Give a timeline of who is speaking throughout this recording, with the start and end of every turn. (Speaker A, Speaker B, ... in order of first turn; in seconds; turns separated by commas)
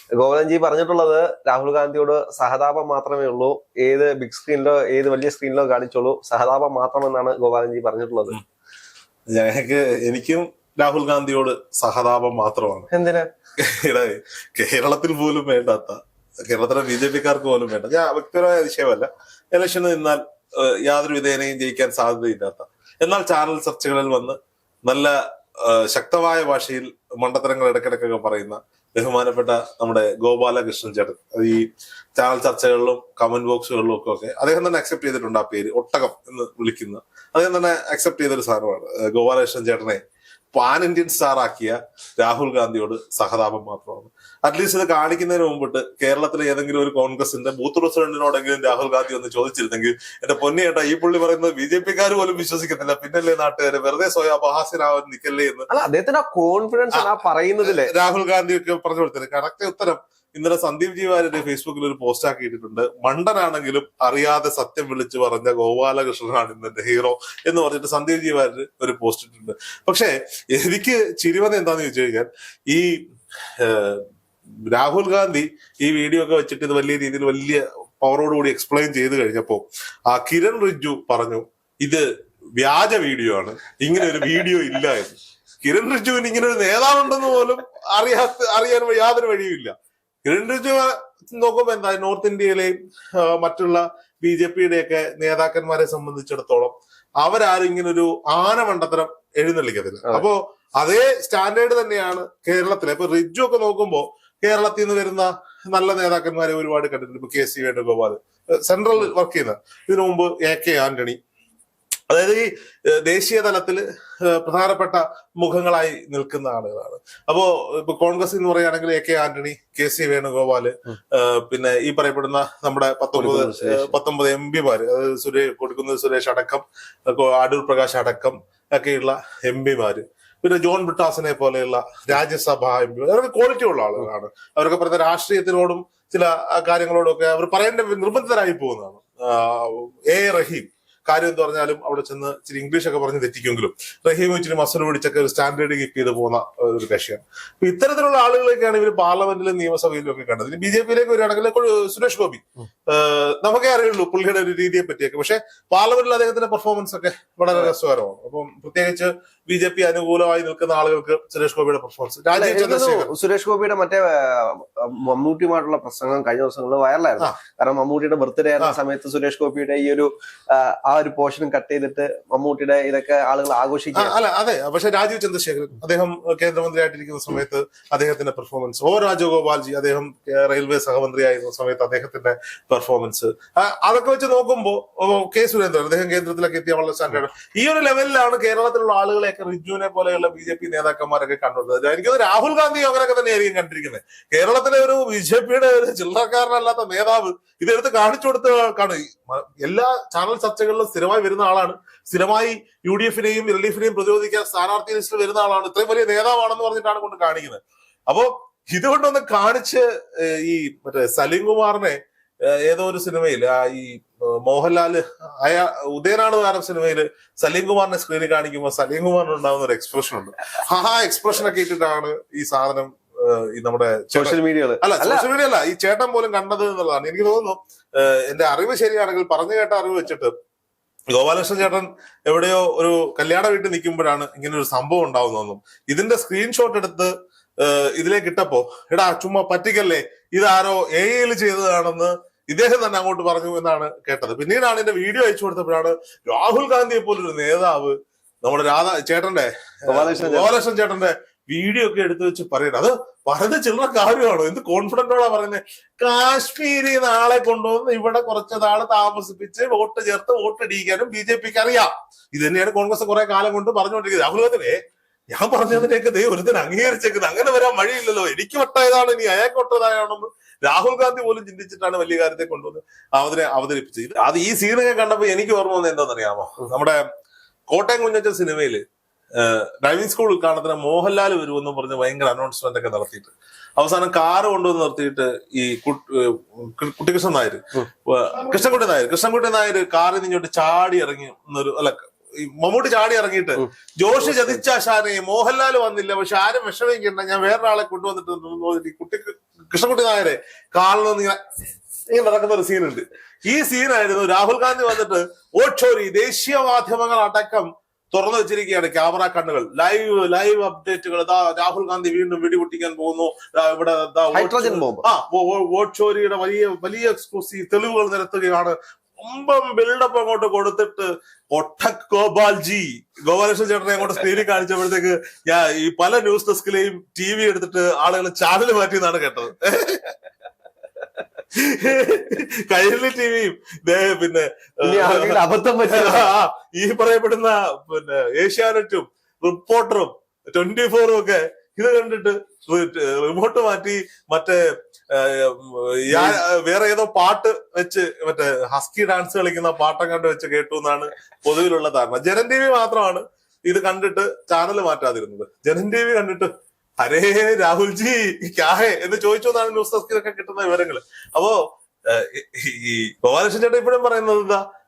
Speaker A: 0.1-8.4, Speaker B: 9.3-12.9, Speaker A: 12.9-13.3, Speaker B: 13.6-31.6, Speaker B: 32.2-40.0, Speaker B: 40.5-55.7, Speaker A: 55.7-57.9, Speaker B: 57.6-73.0, Speaker B: 73.6-74.0, Speaker B: 74.7-82.0, Speaker B: 82.6-89.7, Speaker B: 90.2-111.2, Speaker B: 112.1-163.1, Speaker A: 123.1-123.9, Speaker A: 162.3-174.1, Speaker B: 173.9-230.3, Speaker A: 224.1-225.2, Speaker B: 231.1-264.8, Speaker A: 249.9-250.5, Speaker B: 265.3-277.0, Speaker B: 277.7-278.8, Speaker B: 279.4-301.4, Speaker A: 294.2-294.6, Speaker B: 302.1-330.1, Speaker A: 314.3-315.0, Speaker B: 331.5-364.6, Speaker A: 334.8-336.3, Speaker A: 346.1-346.4